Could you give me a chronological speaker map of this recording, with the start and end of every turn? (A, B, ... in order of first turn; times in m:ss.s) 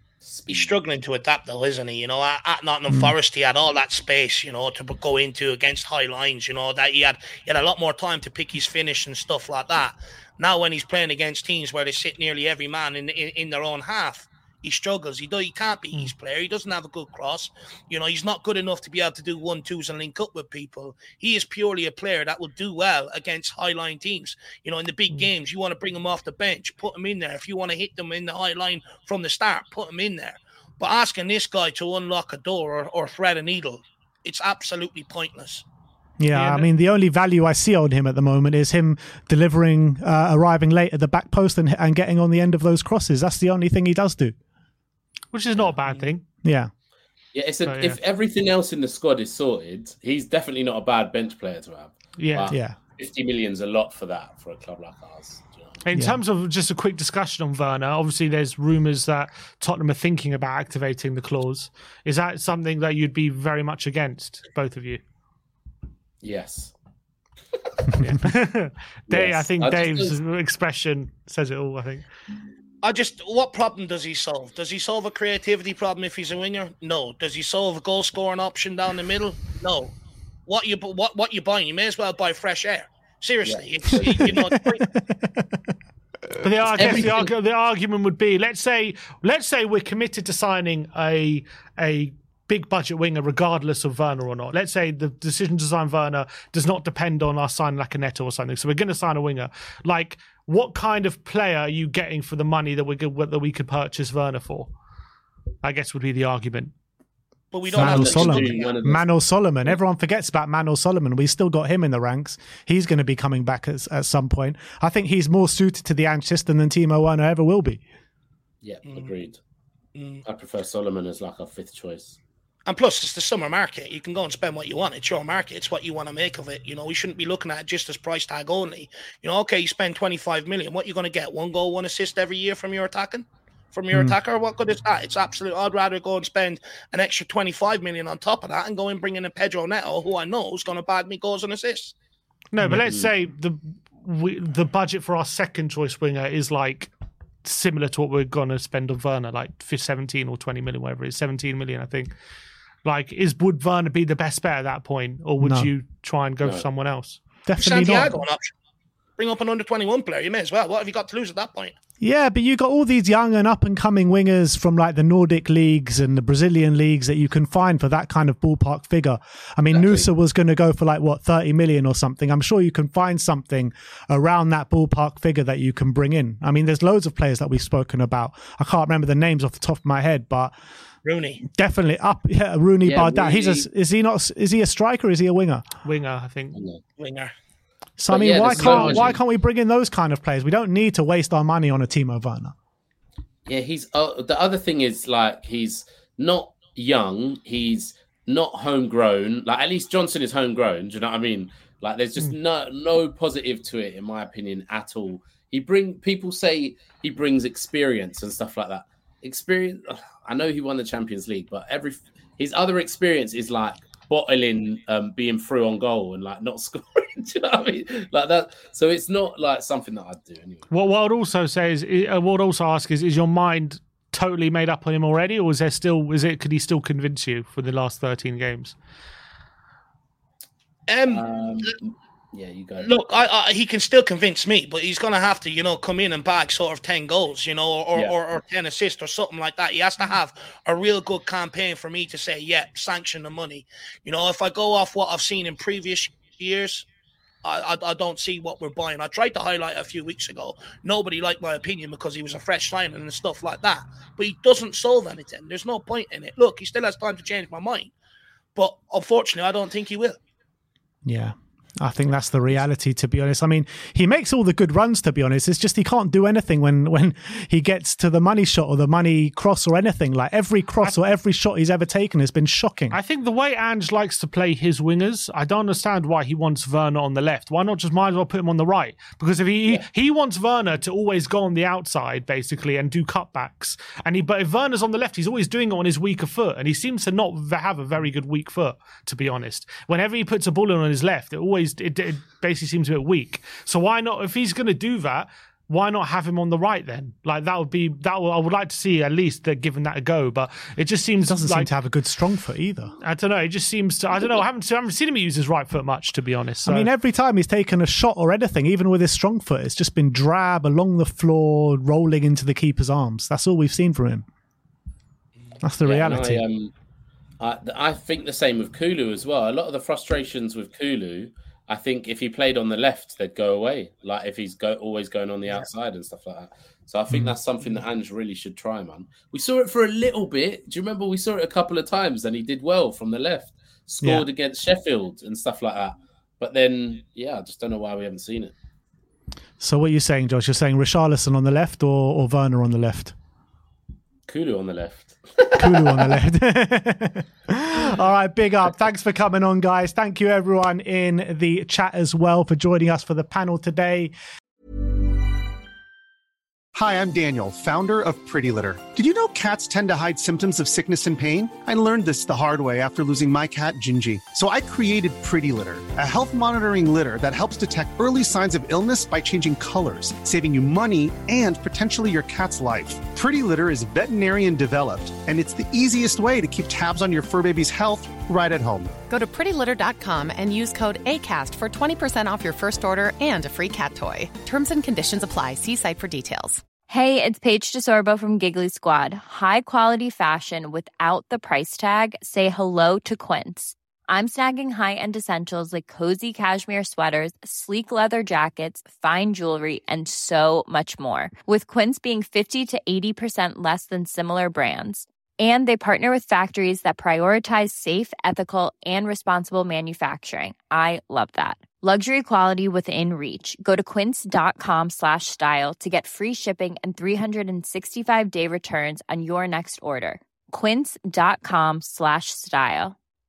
0:00.2-0:00.7 A
0:00.5-0:35.6 B
0:36.2-0:44.4 C
0:36.3-0:36.7 D
0:45.3-0:46.2 D
0:46.4-0:46.7 C
0:47.3-0:55.8 A
0:47.7-0:48.0 D
0:52.2-0:52.5 D
0:52.5-0:52.8 C
0:55.8-1:05.0 D
0:55.9-0:56.2 C
1:06.2-1:06.7 A
1:08.0-1:12.0 D
1:09.1-1:10.2 A
1:12.8-1:19.9 B
1:20.5-1:24.9 B
1:23.4-1:24.3 A
1:24.0-1:25.6 C
1:26.4-1:44.7 D
1:26.7-1:27.3 A
1:45.6-1:46.7 D
1:47.5-1:48.7 B
1:47.7-1:49.1 A
1:47.7-1:57.8 C
1:58.6-1:59.4 A
2:00.0-2:00.2 B
2:00.2-2:02.2 A
2:02.7-2:21.9 B
2:22.5-2:26.9 D
2:27.4-2:32.1 D
2:32.8-2:37.2 D
2:35.4-2:35.7 C
2:37.5-2:38.2 C
2:37.6-2:38.5 B
2:39.2-2:41.8 B
2:42.0-3:00.5 C
2:49.7-2:50.1 A
3:01.0-3:01.4 B
3:01.4-3:05.6 C
3:02.8-3:03.7 A
3:05.8-3:06.6 D
3:06.6-3:06.8 A
3:07.0-3:07.3 B
3:08.0-3:12.5 C
3:08.1-3:09.2 A
3:08.6-3:09.1 D
3:13.5-3:40.7 A
3:40.7-3:48.8 D
3:50.9-3:51.7 B
3:51.1-3:52.9 A
3:52.8-4:06.9 B
4:07.4-4:17.9 B
4:18.6-4:20.2 B
4:21.0-4:33.0 C
4:32.9-5:01.7 D
5:01.2-5:02.9 C
5:03.0-5:06.9 D
5:06.6-5:14.2 C
5:15.6-5:16.4 C
5:15.8-5:16.7 A
5:17.4-5:38.5 A
5:39.6-5:43.1 C
5:44.3-5:46.2 A
5:45.6-5:54.1 C
5:56.7-6:18.9 E
6:19.1-6:26.6 F
6:26.9-7:03.0 G